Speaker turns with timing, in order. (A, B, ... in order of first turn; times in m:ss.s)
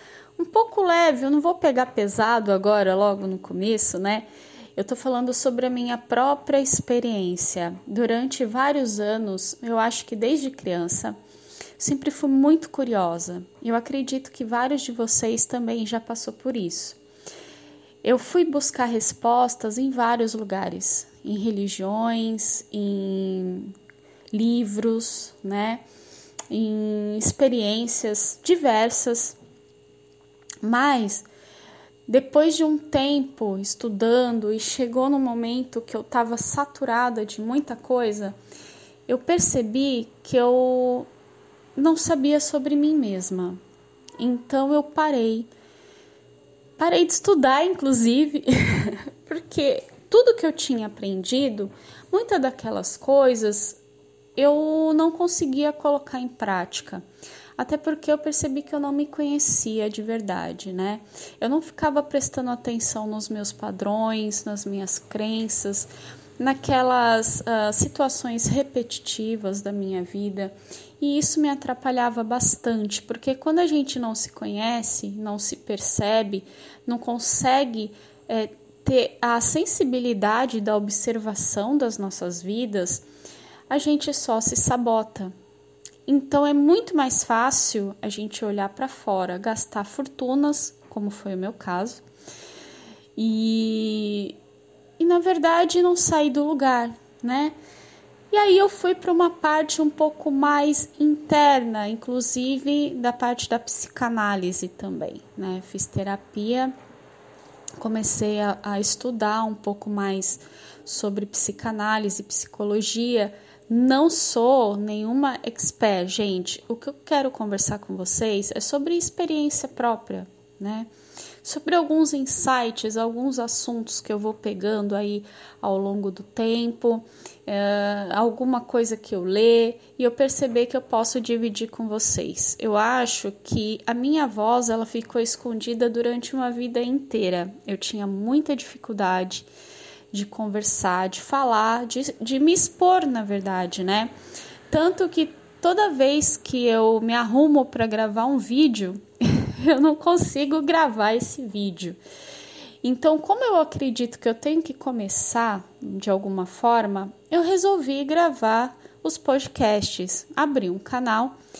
0:00.4-0:11.2 A
0:11.8-0:17.0 A
0:18.0-0:23.7 A
0:24.3-0:25.8 A
0:26.5-0:29.4 A
0:30.6-0:31.3 A
0:32.1-0:38.4 A
0:39.1-0:41.1 A
0:41.8-0:43.6 A
0:44.2-0:45.5 A
0:46.8-0:53.8 A
0:54.4-0:57.0 A
0:57.6-1:23.0 A
1:23.7-1:25.3 A
1:26.0-1:32.0 A
1:33.2-1:34.4 A
1:35.0-1:37.5 A
1:38.3-1:46.7 A
1:47.8-2:00.9 A
2:01.4-2:19.5 A
2:20.1-2:24.1 A
2:24.7-2:32.0 A
2:32.8-2:41.4 A